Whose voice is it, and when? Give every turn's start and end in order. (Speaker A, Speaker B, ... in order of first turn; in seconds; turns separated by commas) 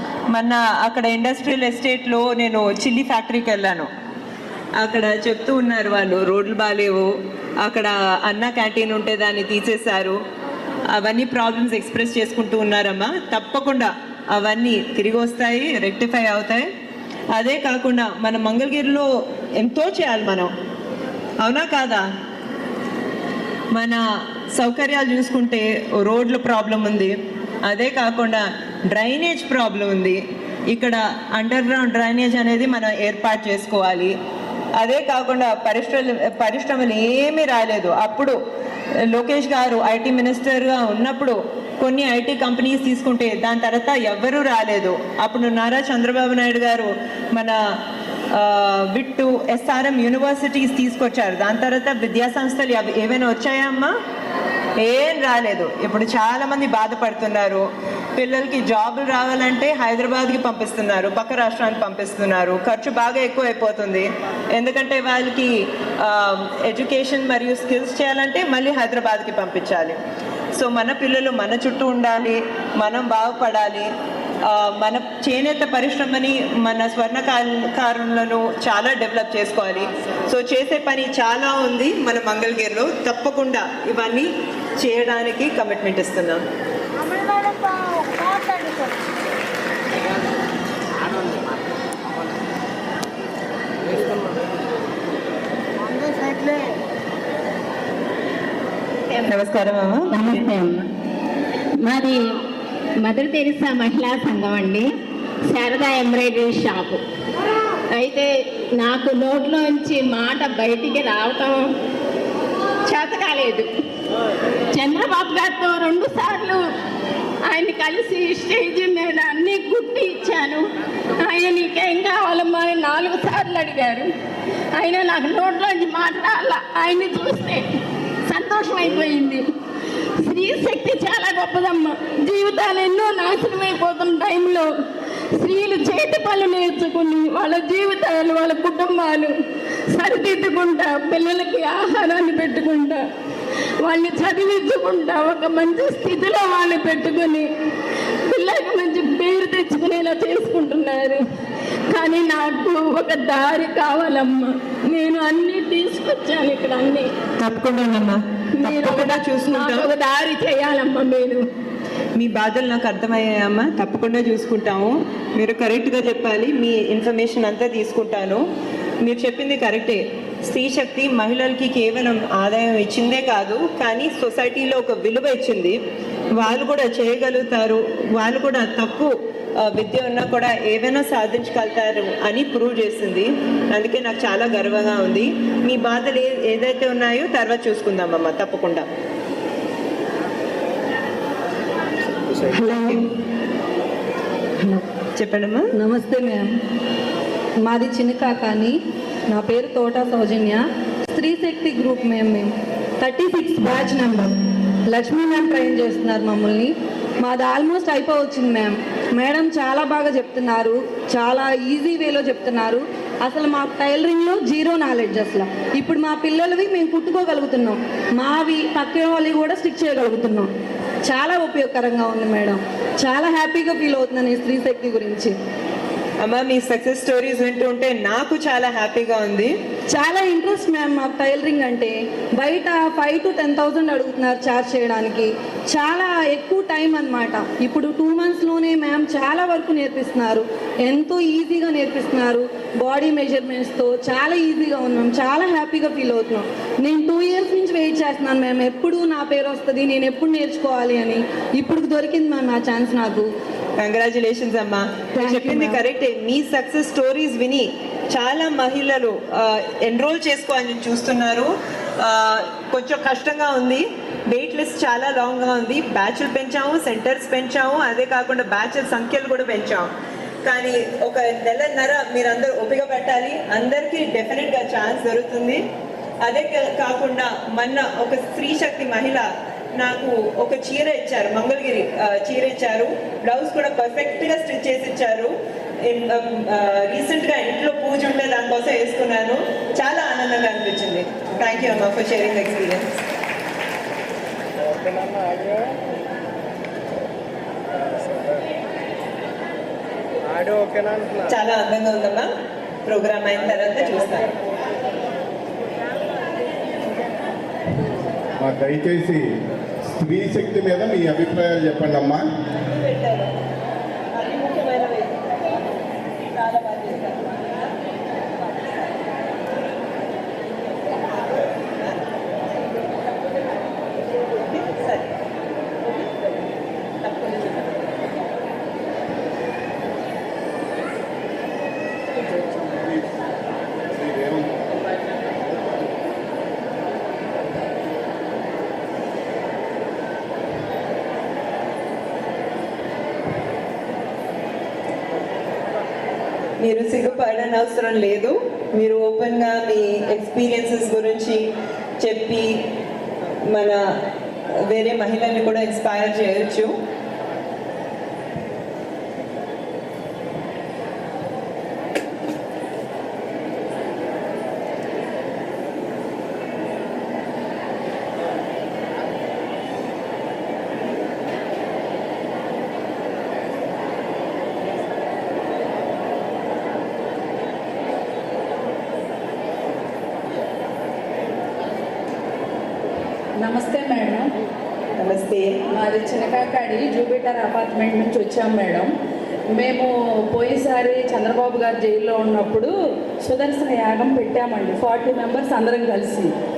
Speaker A: 0.3-3.9, Speaker A: 4.8-7.1, Speaker A: 7.6-10.2, Speaker A: 10.9-16.7, Speaker A: 17.3-19.1, Speaker A: 19.6-20.5, Speaker A: 21.4-22.1, Speaker A: 23.7-24.0, Speaker A: 24.5-34.1, Speaker A: 34.8-38.4, Speaker A: 39.1-47.5, Speaker A: 48.4-53.9, Speaker A: 54.8-70.0, Speaker A: 70.6-73.9, Speaker A: 74.5-84.3, Speaker A: 84.8-86.5, Speaker A: 99.3-100.3, Speaker B: 100.2-100.6, Speaker B: 101.8-102.2, Speaker B: 103.0-104.9, Speaker B: 105.5-107.0, Speaker B: 108.0-108.3, Speaker B: 108.8-111.7, Speaker B: 112.9-113.7, Speaker B: 114.7-116.6, Speaker B: 117.5-120.6, Speaker B: 121.2-124.1, Speaker B: 124.8-127.6, Speaker B: 128.3-129.4, Speaker B: 130.3-134.7, Speaker B: 135.4-139.3, Speaker B: 139.9-143.0, Speaker B: 143.8-147.5, Speaker B: 148.3-151.2, Speaker B: 151.9-157.1, Speaker A: 157.4-159.9, Speaker B: 158.6-161.4, Speaker A: 162.2-168.4, Speaker A: 169.0-175.8, Speaker A: 176.4-188.9, Speaker A: 192.6-193.0, Speaker C: 192.7-193.0, Speaker A: 195.2-195.7, Speaker C: 195.8-196.5, Speaker C: 197.6-198.8, Speaker C: 199.3-204.4, Speaker C: 204.9-220.5, Speaker C: 221.1-225.3, Speaker A: 226.2-229.5, Speaker C: 229.9-253.3, Speaker A: 253.8-269.9, Speaker C: 255.2-255.8, Speaker A: 270.5-275.6, Speaker A: 276.2-292.9, Speaker A: 301.3-302.3, Speaker A: 302.9-304.3, Speaker D: 308.4-309.2, Speaker D: 310.0-312.2, Speaker A: 312.7-313.3, Speaker A: 314.1-315.2, Speaker A: 316.3-317.7, Speaker A: 321.7-322.0, Speaker A: 324.4-325.1, Speaker A: 327.0-327.9, Speaker D: 334.1-334.4, Speaker A: 346.6-351.4, Speaker A: 352.0-352.6, Speaker A: 353.5-353.8, Speaker A: 354.7-356.7, Speaker E: 383.4-384.3, Speaker A: 385.0-385.5, Speaker E: 385.7-388.9, Speaker E: 389.6-392.7, Speaker E: 393.2-396.3